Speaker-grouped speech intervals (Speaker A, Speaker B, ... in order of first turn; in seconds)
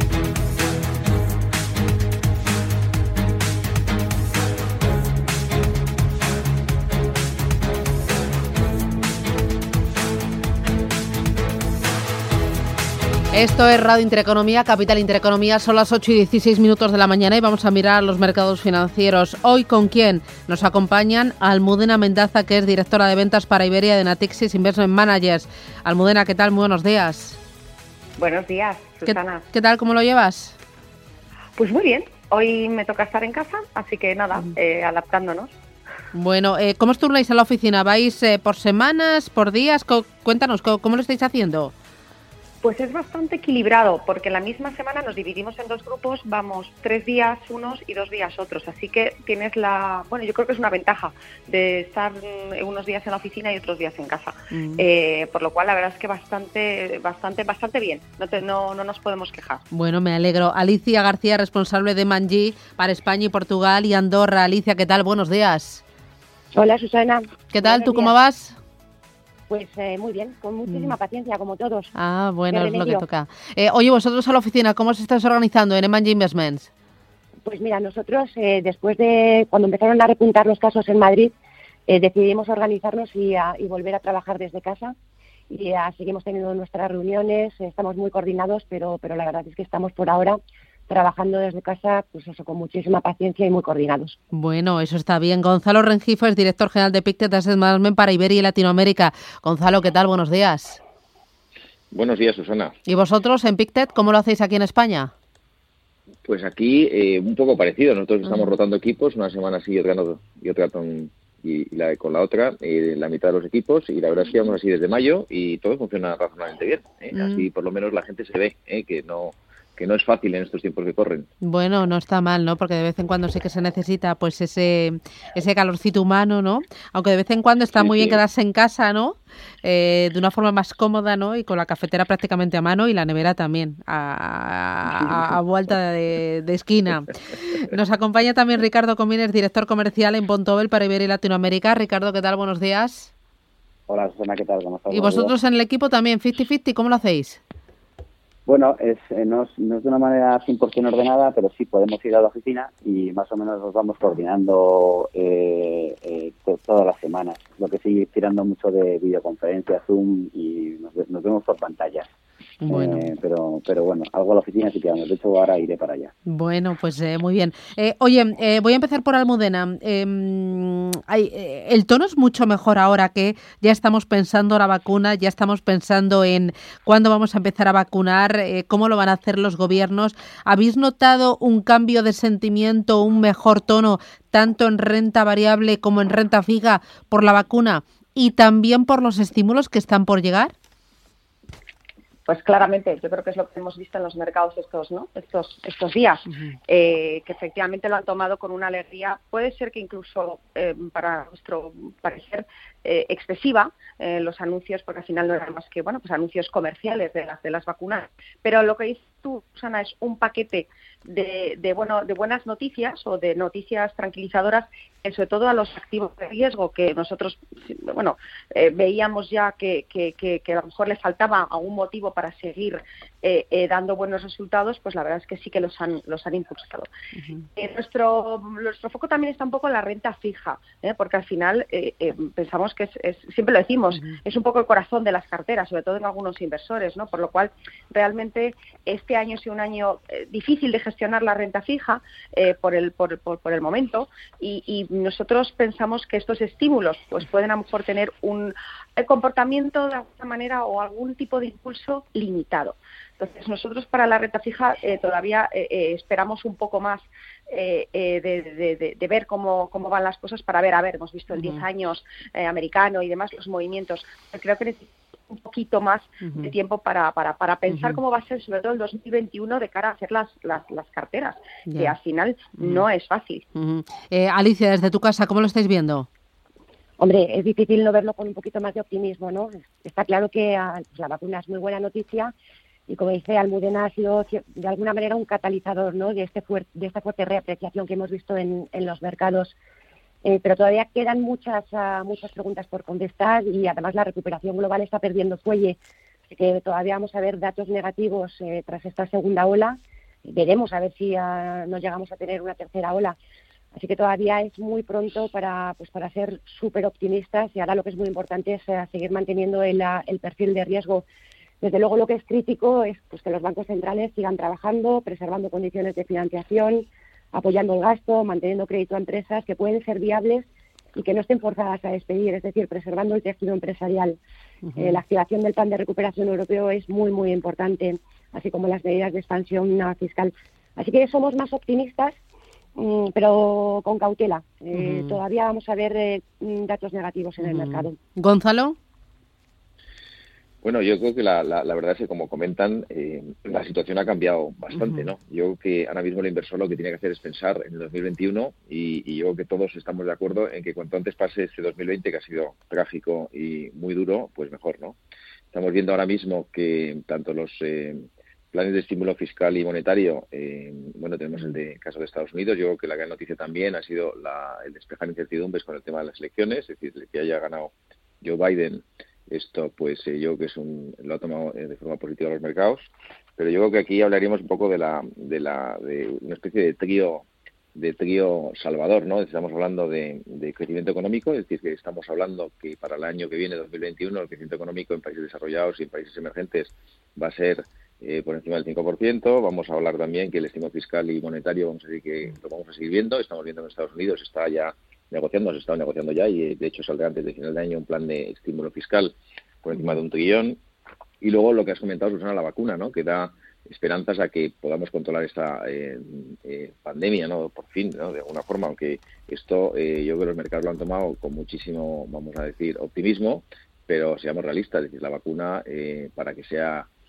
Speaker A: 13.3-27.4, 29.1-30.6, 36.1-41.7, 54.5-54.8, 59.7-65.8, 67.5-68.6, 70.7-71.0, 72.0-76.7, 94.3-100.8, 102.9-105.1, 108.3-108.5, 117.1-117.5, 121.4-143.1, 144.9-147.4, 162.6-163.1, 166.3-190.5, 261.3-261.6, 266.2-266.5, 267.7-268.0, 271.7-271.9, 272.6-272.8, 273.6-276.1, 324.7-325.0, 334.7-335.2, 337.4-338.8, 344.7-345.1
Speaker B: 28.2-29.5, 31.6-35.5, 42.6-59.6, 192.3-226.9, 227.6-273.5
Speaker C: 66.5-68.1, 69.5-71.9, 72.5-73.0, 77.5-81.3, 81.9-85.0, 85.5-94.2, 277.0-282.3, 282.9-289.6, 290.2-295.8, 296.3-303.2, 303.7-311.1, 311.6-324.2, 324.8-332.2, 332.8-338.0
Speaker D: 101.9-102.8, 106.2-121.3, 127.8-128.2, 340.6-355.0, 355.5-400.6, 401.2-416.9
Speaker E: 143.9-145.3, 148.5-162.1, 162.7-166.1